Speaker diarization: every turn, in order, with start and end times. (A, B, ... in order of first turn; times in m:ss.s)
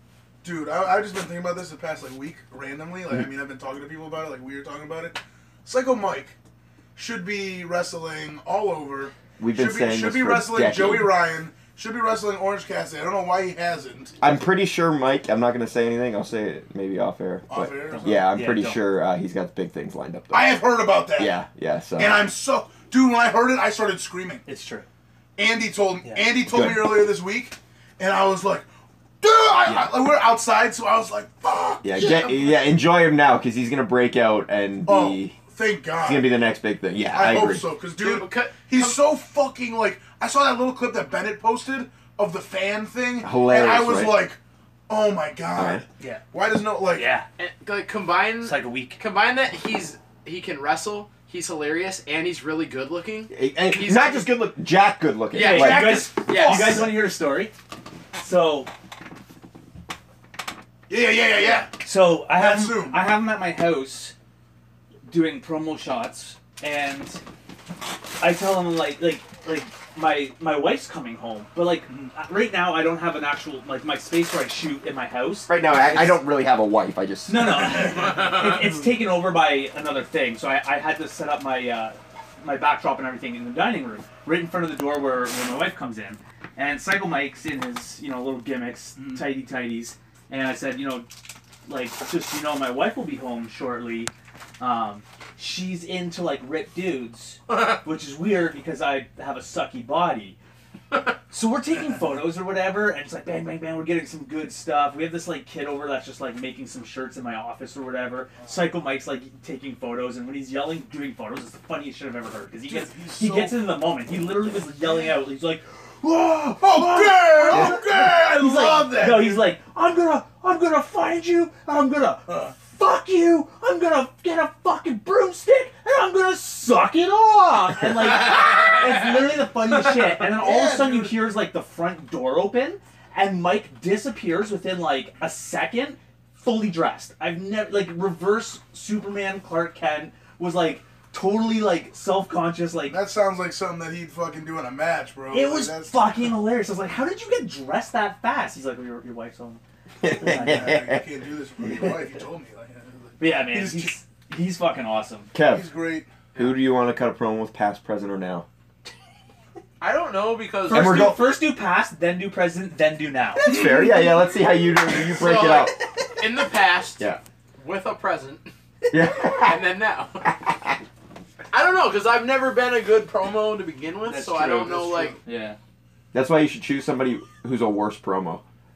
0:00.4-0:06.3 A
0:06.9-0:14.2 A
0:09.4-0:11.2 B
0:14.2-0:20.6 B
0:17.5-0:18.3 A
0:17.9-0:18.9 C
0:20.3-0:21.4 A
0:21.1-0:22.3 B
0:22.0-0:24.4 A
0:24.4-0:24.9 C
0:25.4-0:28.7 A
0:26.5-0:27.1 B
0:29.2-0:32.4 A
0:29.6-0:29.9 B
0:31.8-0:35.4 B
0:32.0-0:32.6 D
0:34.8-0:36.3 A
0:36.0-0:37.7 B
0:37.1-0:44.4 A
0:38.0-0:39.0 D
0:43.2-0:44.3 B
0:44.9-0:47.1 A
0:45.5-0:45.8 B
0:46.9-0:47.2 C
0:47.4-0:54.4 D
0:48.4-0:49.0 C
0:53.3-0:56.0 B
0:55.3-0:56.9 D
0:55.3-0:57.5 C
0:55.8-0:57.0 A
0:58.1-0:58.7 C
1:00.9-1:01.7 A
1:01.8-1:04.1 C
1:02.3-1:03.0 A
1:05.0-1:07.2 C
1:08.2-1:16.2 C
1:15.5-1:17.9 B
1:17.3-1:31.1 C
1:17.8-1:18.7 D
1:31.6-1:40.4 C
1:41.3-2:23.0 C
1:52.7-1:53.6 A
1:56.6-1:59.4 A
2:08.3-2:08.8 D
2:10.3-2:11.2 A
2:22.9-2:26.0 A
2:25.3-2:30.8 C
2:30.0-2:31.0 B
2:30.2-2:33.9 A
2:33.2-2:35.3 C
2:35.3-2:35.6 B
2:35.4-2:36.1 A
2:36.3-2:36.6 D
2:36.4-2:38.4 B
2:39.8-2:41.1 D
2:40.6-2:43.5 C
2:40.7-2:41.2 B
2:43.4-2:45.8 B
2:43.5-2:43.9 A
2:45.1-2:47.0 D
2:47.6-2:48.5 D
2:48.9-2:49.6 B
2:49.2-2:50.3 D
2:51.5-2:55.2 D
2:54.0-2:55.6 C
2:54.7-2:55.1 A
2:56.1-2:58.4 B